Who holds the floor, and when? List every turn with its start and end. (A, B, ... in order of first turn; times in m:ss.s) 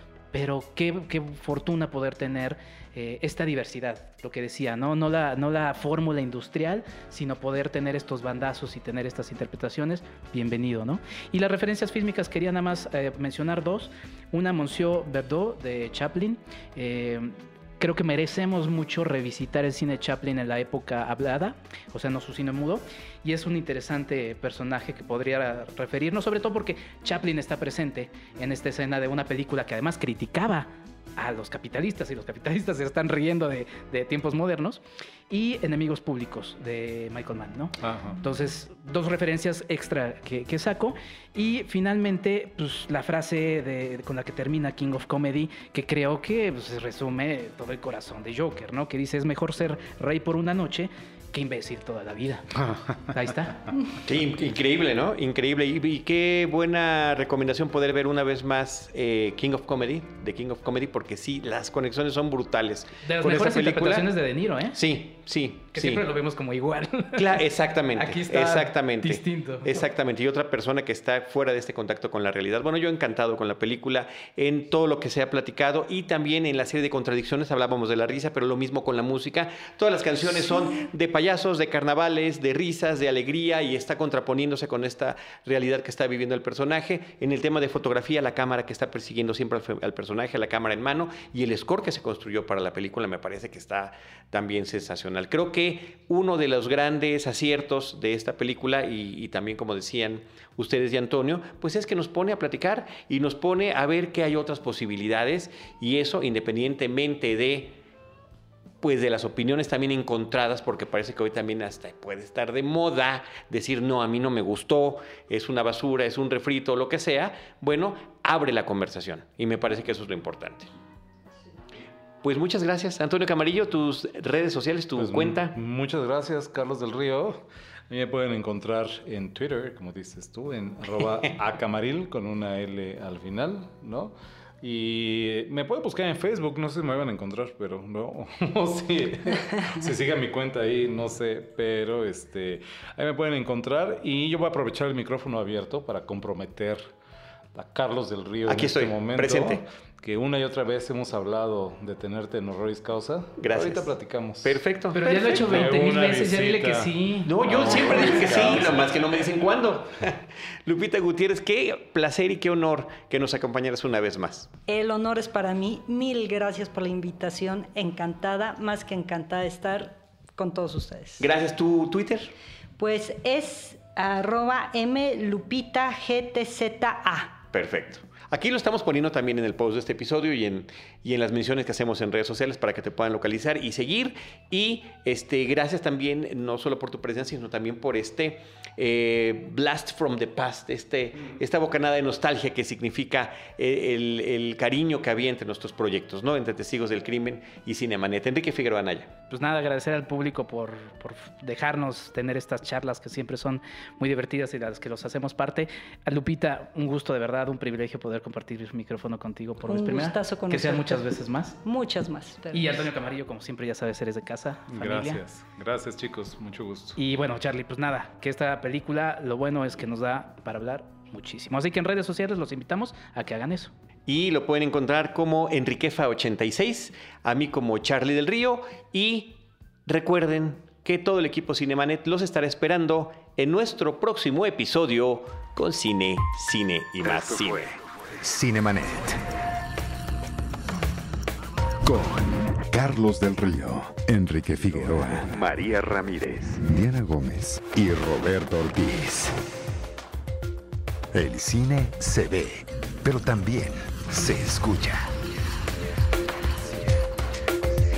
0:00.3-0:53.7 A
0:37.8-0:38.2 B
0:54.0-1:04.1 C
1:03.0-1:04.8 A
1:04.7-1:06.0 C
1:05.7-1:07.4 A
1:07.1-1:47.8 C
1:08.0-1:09.8 A
1:48.8-2:00.7 C
2:02.2-2:05.6 C
2:05.0-2:26.9 B
2:27.5-2:38.9 B
2:28.5-2:29.6 C
2:33.4-2:35.7 C
2:35.0-2:37.4 A
2:37.2-2:44.5 C
2:44.7-2:51.3 D
2:51.2-2:52.3 C
2:52.8-2:57.4 D
2:57.5-3:19.1 C
3:19.3-3:31.6 A
3:29.7-3:31.0 D
3:31.6-3:32.9 D
3:32.5-3:35.2 A
3:34.7-3:37.0 B
3:37.0-3:43.7 A
3:44.1-3:57.7 C
3:57.0-3:59.2 E
4:01.8-4:09.4 E
4:11.1-4:15.1 E
4:16.6-4:17.1 E